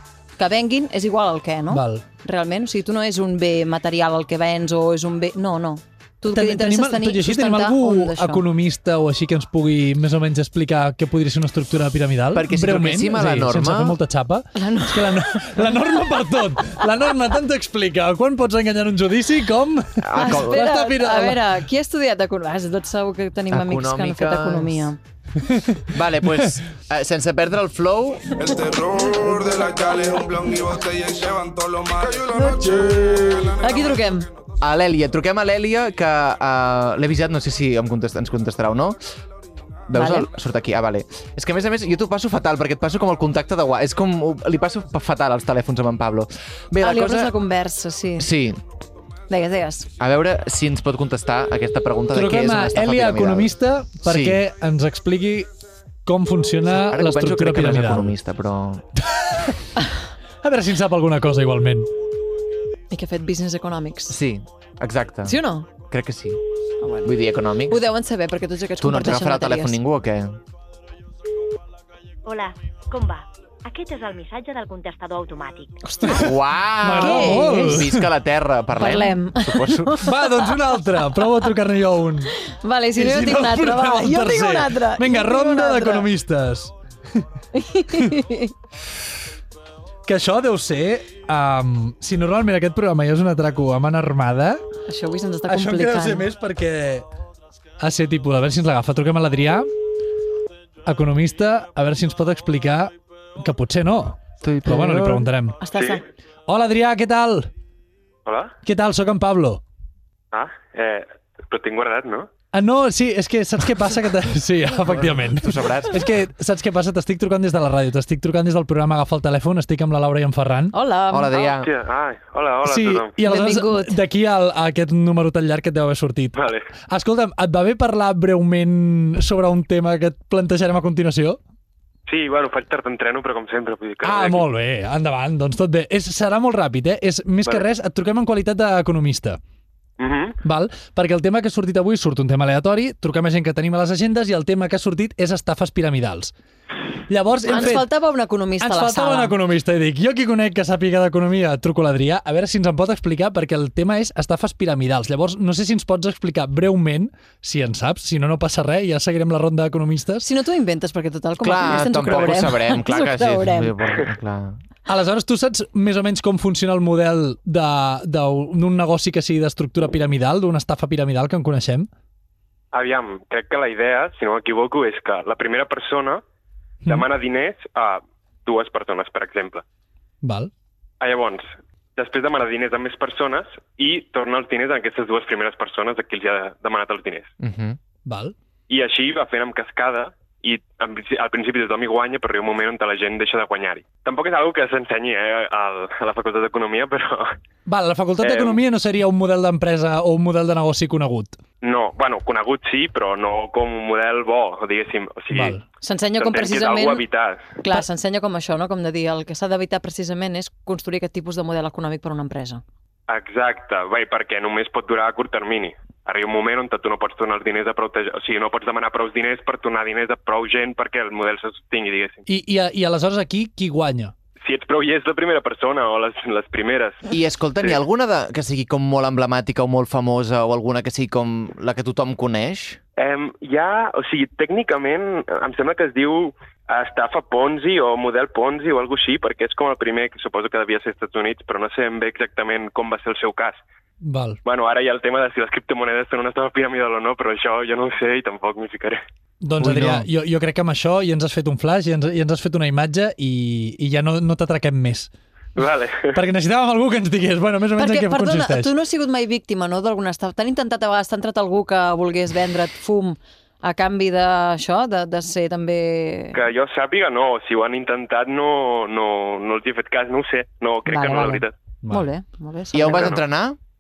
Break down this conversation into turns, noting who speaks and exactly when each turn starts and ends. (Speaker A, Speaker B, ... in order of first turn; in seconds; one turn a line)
Speaker A: 0.4-8.4
Speaker B: 1.7-2.0
Speaker B: 6.3-21.5
Speaker C: 12.3-14.0
Speaker A: 14.6-15.8
Speaker C: 20.0-20.7
Speaker A: 20.2-25.0
Speaker C: 23.5-24.9
Speaker B: 25.4-26.5
Speaker C: 25.9-28.4
Speaker D: 28.3-34.3
Speaker A: 32.3-34.3
Speaker C: 34.6-39.0
Speaker C: 39.9-47.4
Speaker A: 39.9-40.3
Speaker A: 46.8-48.3
Speaker C: 48.2-48.6
Speaker A: 49.3-49.9
Speaker C: 50.0-54.4
Speaker B: 52.1-55.5
Speaker B: 56.1-58.1
Speaker C: 56.7-58.9
Speaker B: 59.0-59.5
Speaker B: 60.4-61.9
Speaker A: 62.9-64.2
Speaker C: 64.1-66.4
Speaker A: 65.2-65.7
Speaker A: 66.8-67.2
Speaker C: 67.0-67.8
Speaker A: 67.7-69.8
Speaker C: 68.8-70.4
Speaker E: 72.2-75.8
Speaker A: 75.8-76.3
Speaker C: 76.1-80.1
Speaker B: 76.1-78.1
Speaker A: 76.8-77.8
Speaker A: 78.8-81.5
Speaker B: 80.0-82.4
Speaker A: 82.4-86.1
Speaker B: 83.0-87.2
Speaker A: 87.5-88.5
Speaker B: 90.1-94.6
Speaker A: 94.9-96.3
Speaker B: 95.5-97.0
Speaker B: 97.8-99.7
Speaker B: 100.8-105.6
Speaker C: 104.4-105.3
Speaker A: 105.6-106.0
Speaker F: 105.7-106.0
Speaker B: 106.5-107.5
Speaker F: 108.3-108.5
Speaker B: 108.6-109.6
Speaker F: 110.3-112.3
Speaker B: 112.5-120.7
Speaker C: 114.9-116.0
Speaker A: 120.7-121.5
Speaker C: 121.1-121.7
Speaker F: 121.5-123.1
Speaker B: 122.6-131.4
Speaker A: 123.2-124.0
Speaker F: 126.4-126.7
Speaker F: 132.1-134.5
Speaker B: 134.0-139.4
Speaker F: 140.0-140.4
Speaker B: 140.4-146.3
Speaker B: 147.1-147.9
Speaker A: 147.5-149.3
Speaker B: 148.6-160.2
Speaker A: 160.2-163.8
Speaker C: 161.4-164.6
Speaker B: 164.9-171.9
Speaker F: 172.7-176.2
Speaker F: 176.9-179.6
Speaker B: 180.2-180.5
Speaker F: 181.0-187.3
Speaker C: 187.4-187.8
Speaker B: 188.1-188.3
Speaker F: 188.7-197.4
Speaker B: 197.7-201.4
Speaker F: 198.2-198.6
Speaker F: 201.6-205.6
Speaker B: 205.3-205.6
Speaker A: 205.8-207.0
Speaker F: 206.2-207.5
Speaker A: 207.6-212.6
Speaker F: 213.1-222.2
Speaker B: 222.3-224.1
Speaker F: 224.4-227.1
Speaker C: 227.1-232.8
Speaker F: 233.0-243.6
Speaker B: 244.0-244.4
Speaker F: 244.5-249.0
Speaker B: 249.4-255.1
Speaker C: 249.6-250.1
Speaker F: 255.6-256.2
Speaker B: 256.1-258.7
Speaker A: 257.8-266.4
Speaker F: 266.4-271.5
Speaker A: 270.9-273.1
Speaker C: 272.7-273.6
Speaker F: 272.8-273.2